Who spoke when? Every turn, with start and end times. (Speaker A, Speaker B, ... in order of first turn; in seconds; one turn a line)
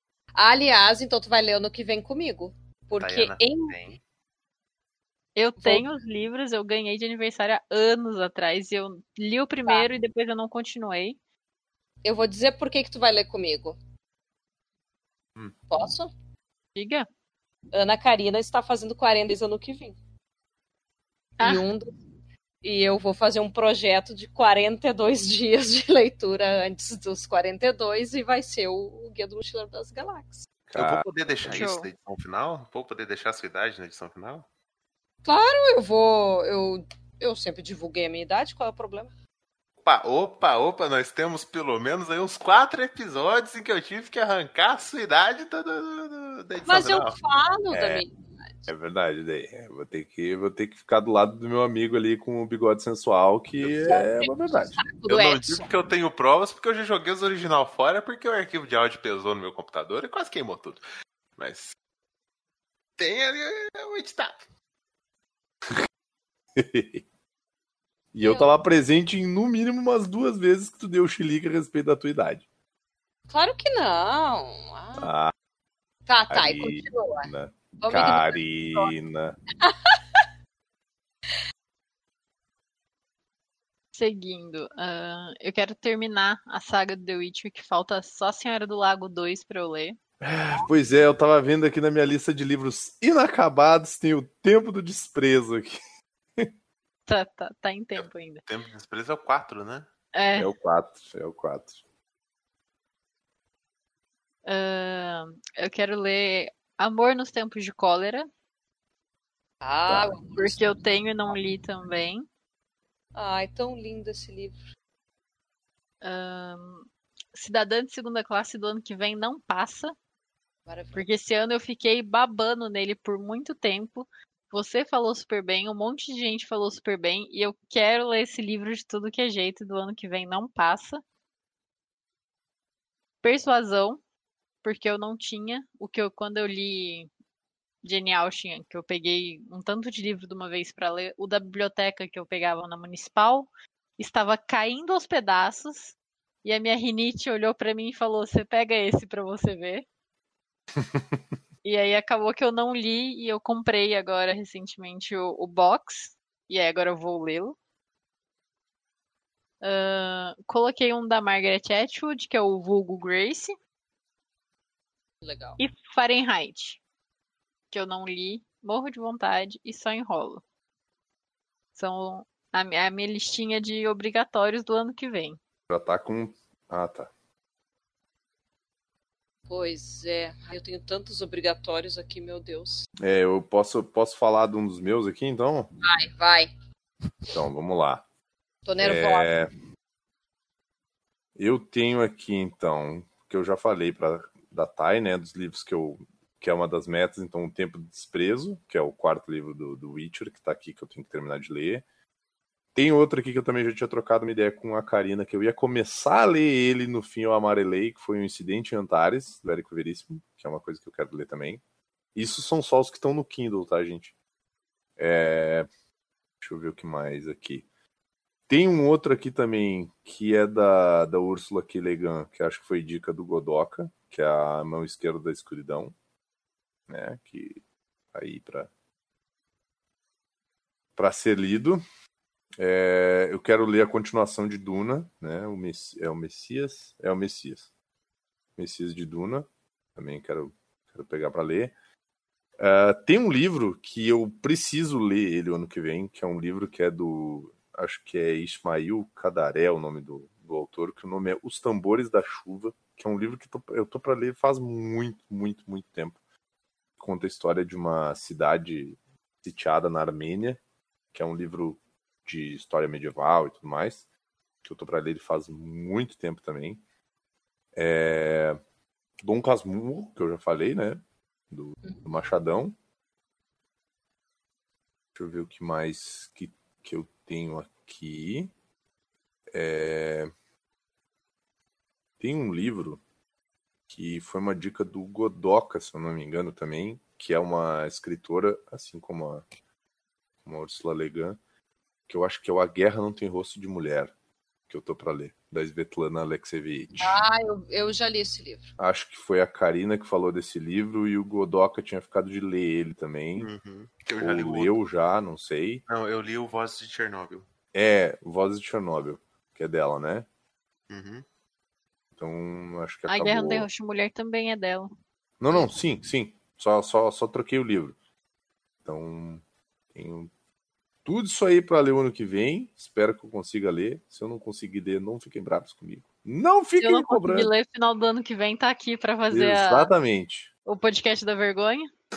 Speaker A: 0.4-3.8
Speaker B: 3.0-4.0
Speaker C: 5.4-11.2
Speaker A: 5.6-5.9
Speaker A: 12.0-13.8
Speaker A: 15.7-16.1
Speaker C: 16.8-17.1
Speaker A: 17.7-20.0
Speaker C: 21.4-21.7
Speaker A: 21.4-22.0
Speaker A: 22.6-30.5
Speaker D: 30.7-31.0
Speaker B: 30.8-34.5
Speaker C: 31.5-31.9
Speaker A: 35.2-39.1
Speaker B: 39.8-47.2
Speaker A: 46.7-48.7
Speaker D: 47.7-48.0
Speaker D: 48.7-54.8
Speaker A: 53.8-55.7
Speaker B: 55.1-60.8
Speaker B: 61.4-61.8
Speaker B: 63.0-64.4
Speaker D: 66.6-67.0
Speaker D: 68.1-72.5
Speaker A: 68.2-68.5
Speaker A: 73.3-75.1
Speaker D: 75.0-75.3
Speaker A: 76.1-78.9
Speaker D: 76.3-79.4
Speaker A: 79.6-80.2
Speaker C: 83.9-90.0
Speaker D: 90.5-95.8
Speaker C: 97.1-98.4
Speaker B: 98.0-99.9
Speaker C: 100.1-100.5
Speaker D: 100.4-101.8
Speaker C: 104.5-108.3
Speaker A: 109.6-111.0
Speaker C: 109.9-112.3
Speaker A: 113.2-114.7
Speaker C: 116.0-120.0
Speaker A: 120.7-121.1
Speaker C: 120.9-131.0
Speaker C: 133.2-134.0
Speaker C: 134.6-137.1
Speaker C: 137.8-149.9
Speaker D: 150.8-151.0
Speaker C: 151.6-157.6
Speaker C: 159.6-163.6
Speaker A: 165.2-165.6
Speaker C: 165.6-166.8
Speaker C: 167.7-170.4
Speaker C: 171.8-175.4
Speaker D: 175.7-177.1
Speaker A: 179.5-182.9
Speaker D: 183.0-185.7
Speaker A: 185.8-186.5
Speaker D: 187.3-188.0
Speaker A: 188.7-189.3
Speaker D: 188.8-189.5
Speaker D: 191.4-201.8
Speaker D: 202.8-211.6
Speaker D: 212.2-214.1
Speaker D: 215.0-215.7
Speaker D: 216.4-217.7
Speaker D: 218.5-225.9
Speaker D: 226.9-227.6
Speaker D: 228.1-228.7
Speaker D: 231.0-231.8
Speaker D: 232.6-237.7
Speaker D: 238.6-241.8
Speaker D: 242.6-256.2
Speaker D: 257.0-260.6
Speaker D: 261.1-264.0
Speaker D: 264.6-266.8
Speaker D: 267.8-268.6
Speaker D: 269.2-272.8
Speaker A: 271.8-272.2
Speaker D: 275.1-278.5
Speaker D: 279.5-280.3
Speaker D: 282.2-283.0
Speaker D: 283.9-289.4
Speaker D: 290.4-291.4
Speaker D: 292.1-294.1
Speaker D: 294.7-297.2
Speaker A: 297.0-298.7
Speaker D: 298.8-303.5
Speaker B: 303.4-304.8
Speaker D: 304.2-305.8
Speaker B: 305.9-307.5
Speaker D: 307.7-310.3
Speaker B: 310.9-311.2
Speaker D: 312.2-313.7
Speaker C: 313.1-314.9
Speaker D: 315.4-317.9
Speaker D: 318.9-319.4
Speaker D: 319.9-320.3
Speaker D: 321.1-327.5
Speaker C: 326.8-329.9
Speaker D: 329.3-330.5
Speaker C: 330.6-331.9